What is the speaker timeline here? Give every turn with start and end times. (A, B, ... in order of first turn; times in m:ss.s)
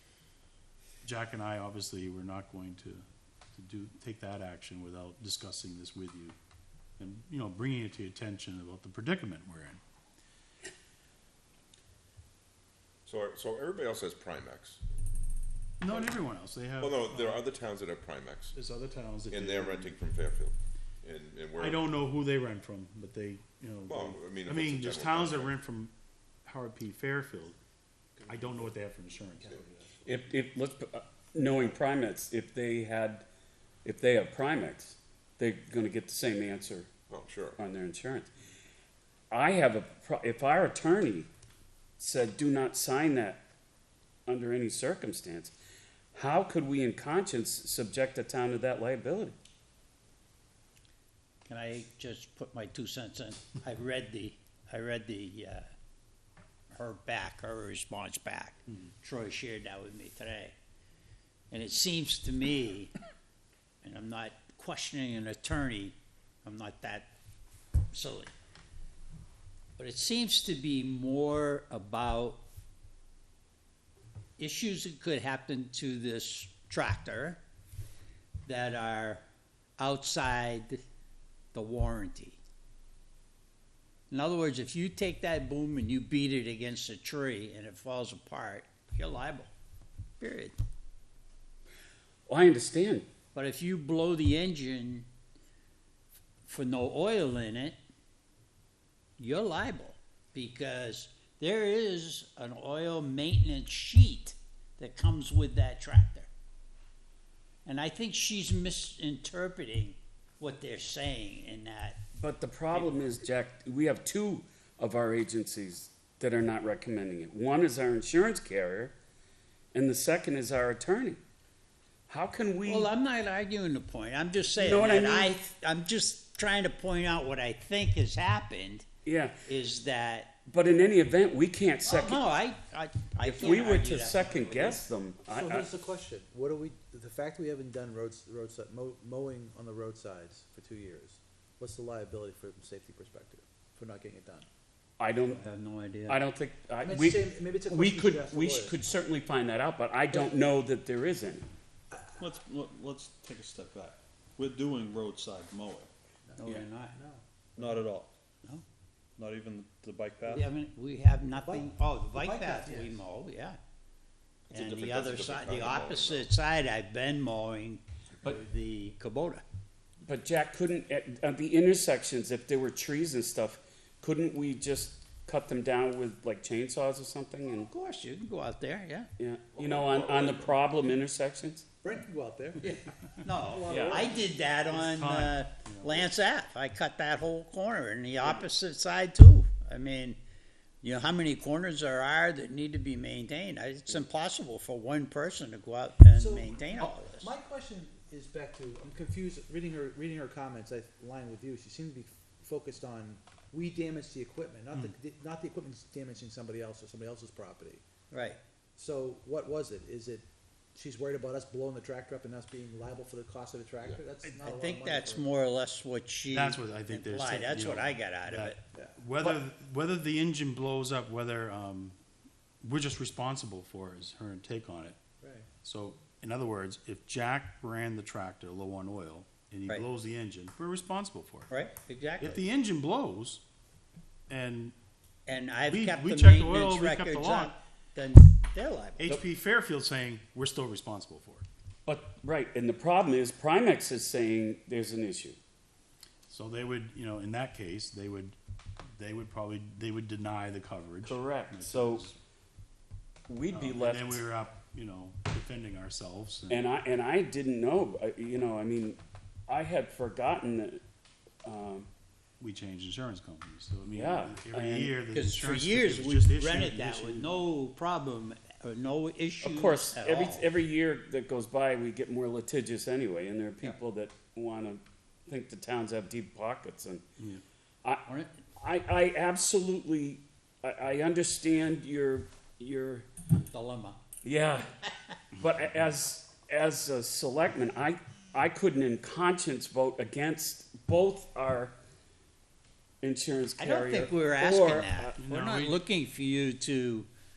0:01.0-0:06.4 A
0:07.0-0:09.8 A
0:13.0-0:14.8 B
0:15.8-0:17.4 A
0:15.9-0:16.2 B
0:16.8-0:18.5 B
0:18.5-0:20.0 A
0:19.3-0:21.9 B
0:21.6-0:25.9 A
0:23.9-0:25.5 B
0:26.4-0:27.6 A
0:28.2-0:29.6 A
0:30.0-0:33.2 C
0:33.8-0:36.9 C
0:37.1-0:37.6 B
0:37.6-0:38.3 C
0:39.3-0:41.3 C
0:42.0-0:43.4 C
0:44.3-0:45.5 C
0:46.1-0:49.3 C
0:51.4-0:55.6 D
0:56.7-1:00.5 D
1:01.5-1:02.9 D
1:03.8-1:07.1 D
1:07.9-1:08.3 D
1:09.8-1:12.4 D
1:14.4-1:17.4 D
1:18.4-1:19.2 D
1:19.8-1:20.8 D
1:21.5-1:22.4 D
1:24.1-1:29.5 D
1:30.2-1:30.6 D
1:32.3-1:33.1 C
1:33.3-1:35.1 D
1:36.4-1:37.8 D
1:39.2-1:46.3 D
1:47.6-1:52.0 D
1:52.2-1:58.9 C
1:59.7-2:01.2 C
2:02.1-2:02.9 C
2:02.6-2:08.8 D
2:04.6-2:05.4 C
2:09.0-2:09.4 C
2:09.4-2:10.3 D
2:10.4-2:12.2 C
2:11.8-2:14.8 D
2:13.2-2:15.7 C
2:15.3-2:24.4 E
2:25.0-2:25.4 C
2:25.4-2:26.2 D
2:26.1-2:31.5 C
2:26.8-2:28.8 E
2:31.9-2:32.2 E
2:32.2-2:35.9 F
2:36.2-2:37.7 E
2:36.4-2:37.0 D
2:37.6-2:38.1 F
2:39.2-2:40.5 F
2:40.3-2:43.6 D
2:41.4-2:43.0 E
2:44.5-2:46.3 B
2:44.5-2:49.4 D
2:50.0-2:57.7 C
2:57.7-2:59.1 D
2:59.2-3:01.6 C
2:59.5-3:00.6 B
3:01.8-3:04.4 E
3:03.2-3:10.2 D
3:03.7-3:04.1 C
3:04.7-3:06.1 A
3:10.8-3:17.3 D
3:16.1-3:27.8 E
3:28.1-3:28.4 D
3:28.8-3:35.3 E
3:34.2-3:38.6 D
3:36.3-3:42.0 A
3:42.6-3:45.0 A
3:45.2-3:45.5 E
3:45.6-3:51.5 A
3:51.5-3:52.4 D
3:52.2-3:53.4 A
3:54.3-3:54.8 A
3:55.2-3:59.1 D
3:55.7-3:57.5 A
3:59.0-4:01.4 A
4:01.8-4:05.4 C
4:06.3-4:08.4 A
4:09.0-4:12.2 A
4:11.0-4:12.1 C
4:13.3-4:14.2 C
4:13.5-4:16.6 A
4:16.5-4:20.8 C
4:21.4-4:21.9 C
4:22.4-4:27.4 A
4:23.9-4:24.9 C
4:25.1-4:30.5 D
4:29.4-4:37.0 C
4:38.0-4:38.3 D
4:38.6-4:43.1 C
4:43.5-4:44.0 D
4:44.2-4:44.7 C
4:45.3-4:51.7 C
4:53.0-4:55.1 C
4:53.6-4:57.1 D
4:55.2-4:55.8 A